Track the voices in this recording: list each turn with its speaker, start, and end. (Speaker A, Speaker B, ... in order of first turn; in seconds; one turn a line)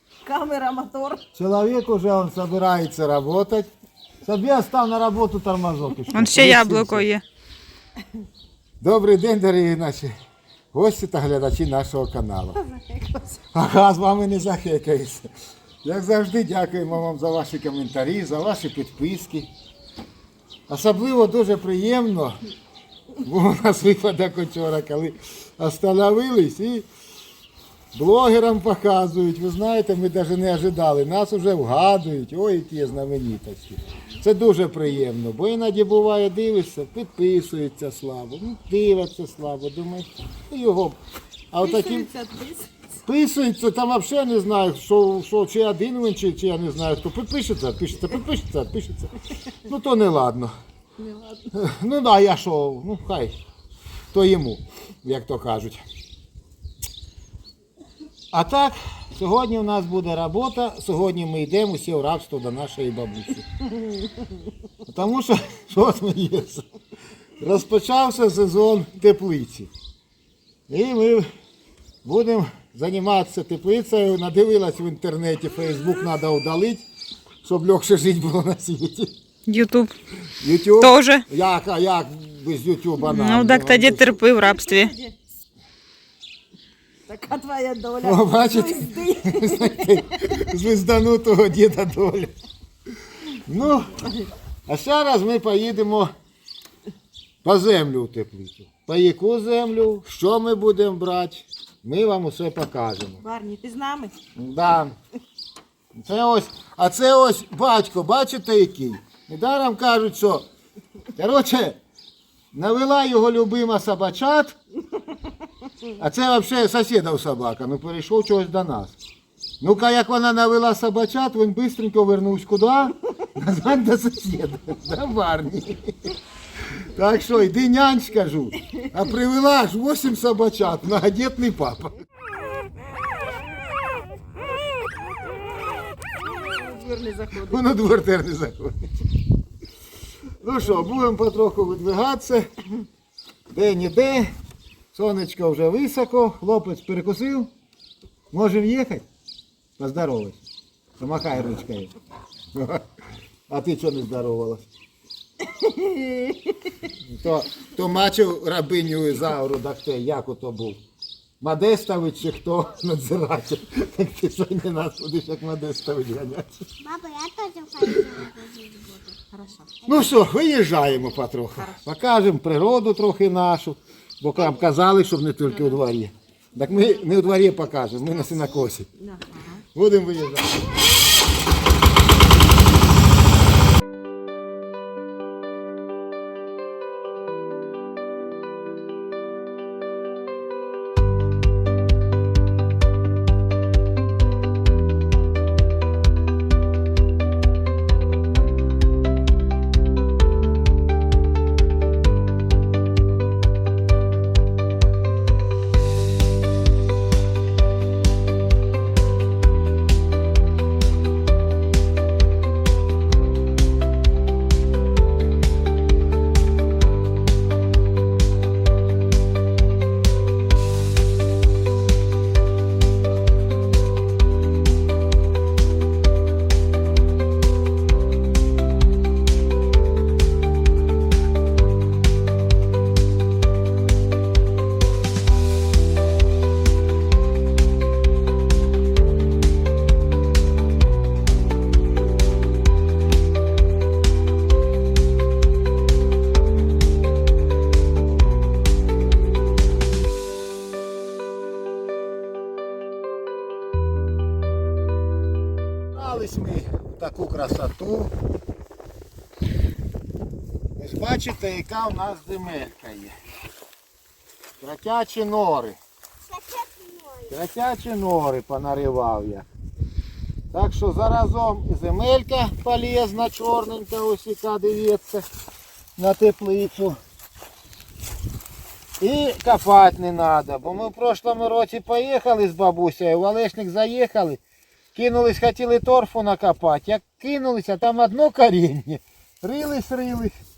Speaker A: 0.2-1.2
Speaker B: 1.3-3.7
Speaker B: 4.2-7.1
Speaker C: 6.1-7.2
Speaker B: 8.8-10.1
Speaker B: 10.7-12.6
Speaker A: 12.7-13.3
Speaker B: 13.5-15.3
Speaker B: 15.8-19.5
Speaker B: 20.7-22.4
Speaker B: 23.2-26.9
Speaker B: 27.9-41.0
Speaker B: 41.5-42.1
Speaker A: 41.6-42.7
Speaker B: 43.0-50.5
Speaker A: 51.0-51.5
Speaker B: 51.5-53.4
Speaker B: 54.1-55.8
Speaker B: 58.3-63.6
Speaker B: 64.9-66.7
Speaker B: 67.4-69.7
Speaker B: 70.7-71.3
Speaker B: 72.0-76.8
Speaker B: 77.4-79.1
Speaker C: 79.5-79.9
Speaker B: 80.4-84.2
Speaker C: 80.8-81.2
Speaker C: 83.0-84.9
Speaker A: 84.4-85.1
Speaker A: 87.1-90.1
Speaker B: 88.0-92.3
Speaker B: 93.5-96.1
Speaker B: 97.4-103.2
Speaker A: 103.2-104.1
Speaker B: 104.4-105.0
Speaker B: 106.0-110.5
Speaker B: 111.2-111.8
Speaker B: 112.5-114.6
Speaker B: 116.0-119.0
Speaker B: 119.6-126.1
Speaker B: 126.8-132.0
Speaker A: 136.0-137.7
Speaker B: 137.4-139.0
Speaker B: 140.4-142.5
Speaker B: 143.5-144.3
Speaker B: 144.9-147.5
Speaker B: 148.3-149.1
Speaker B: 149.8-150.4
Speaker B: 151.0-151.9
Speaker B: 152.5-152.8
Speaker B: 153.5-154.7
Speaker B: 156.9-160.8
Speaker B: 161.4-166.7
Speaker D: 166.8-169.0
Speaker A: 169.1-169.7
Speaker B: 169.8-178.9
Speaker A: 179.0-179.6
Speaker B: 179.7-180.6
Speaker B: 255.9-258.1
Speaker B: 260.8-263.1
Speaker B: 264.6-265.8
Speaker D: 266.3-267.3
Speaker B: 267.3-269.4
Speaker B: 270.5-275.2
Speaker B: 276.0-277.0
Speaker B: 279.0-284.4
Speaker B: 284.9-290.3